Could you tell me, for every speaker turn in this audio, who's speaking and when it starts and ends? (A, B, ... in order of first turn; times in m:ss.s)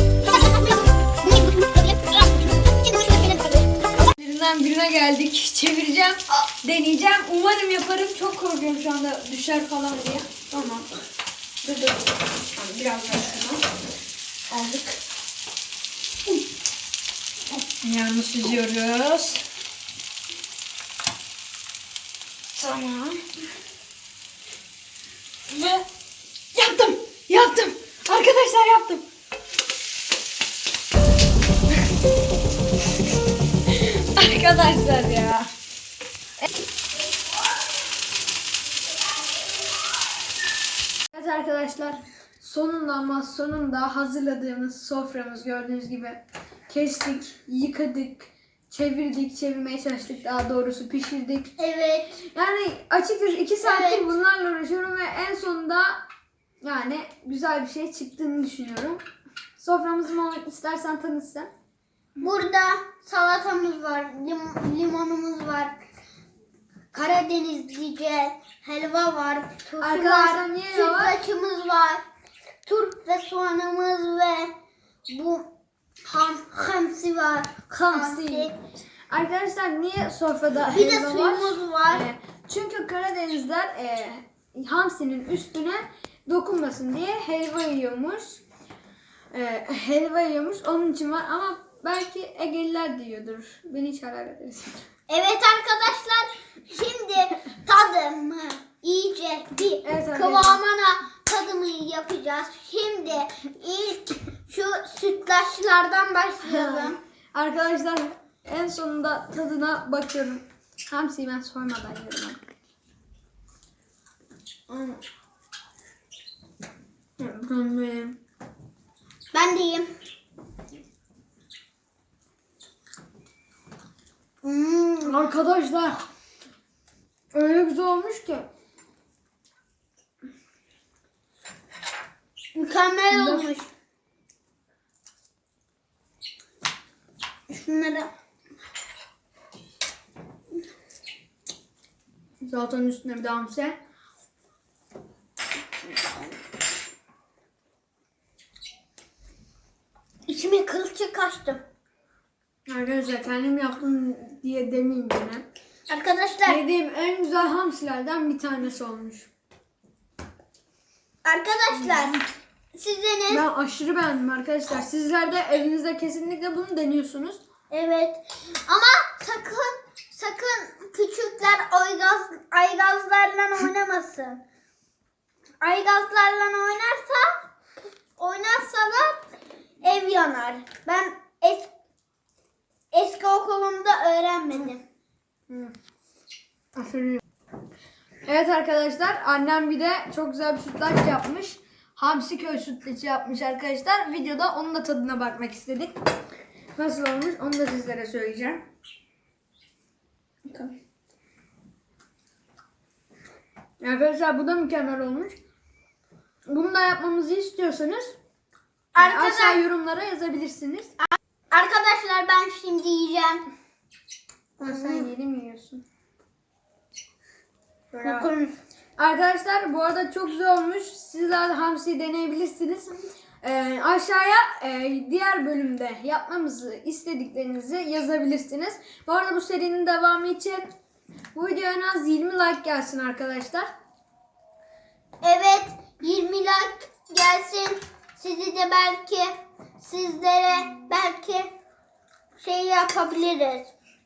0:00.2-0:03.7 A
0:04.1-0:10.9 B
0:11.6-0:13.6 B
0:14.5-0:15.0 B
0:17.8-0:19.4 B
0:22.5-0:23.2 B
0:25.5-0:25.8 B
0:26.5-0:29.0 B
0:33.7-0:35.5 B
0:41.1-0:51.5 B
0:51.6-0:52.2 A
0:52.3-0:56.0 B
0:53.6-0:54.1 A
0:56.6-0:59.0 B
0:59.6-1:01.5 B
1:02.2-1:05.8 A
1:06.9-1:12.0 A
1:09.8-1:11.2 B
1:12.6-1:14.5 A
1:15.1-1:15.5 A
1:16.0-1:18.5 A
1:17.7-1:18.5 B
1:19.1-1:28.4 B
1:20.6-1:22.0 A
1:29.3-1:34.8 B
1:35.1-1:47.0 A
1:39.8-1:40.6 B
1:46.4-1:52.4 B
1:54.7-1:55.0 B
1:57.2-1:58.2 B
1:59.3-1:59.9 A
2:04.4-2:05.2 A
2:05.0-2:06.0 B
2:07.3-2:08.5 B
2:12.5-2:13.7 A
2:13.1-2:13.4 B
2:17.5-2:18.1 A
2:22.4-2:23.8 B
2:30.2-2:31.6 A
2:32.7-2:35.4 B
2:35.9-2:36.6 A
2:36.4-2:39.3 B
2:41.2-2:42.2 A
2:41.7-2:42.2 B
2:42.7-2:43.4 A
2:43.3-2:47.4 B
2:47.7-2:54.4 A
2:55.6-2:57.4 A
2:58.2-2:59.3 A
2:59.8-3:01.7 A
3:02.9-3:04.8 A
3:05.5-3:05.7 B
3:06.7-3:07.2 B
3:08.2-3:15.9 B
3:16.8-3:18.6 B
3:23.8-3:25.3 B
3:26.5-3:28.2 B
3:28.9-3:29.6 A
3:29.0-3:30.9 B
3:31.5-3:33.4 A
3:34.6-3:35.8 B
3:34.7-3:35.1 A
3:37.9-3:38.3 B
3:38.0-3:38.5 A
3:39.0-3:50.7 B
3:51.3-3:53.7 B
3:55.2-4:01.5 A
4:02.4-4:03.7 A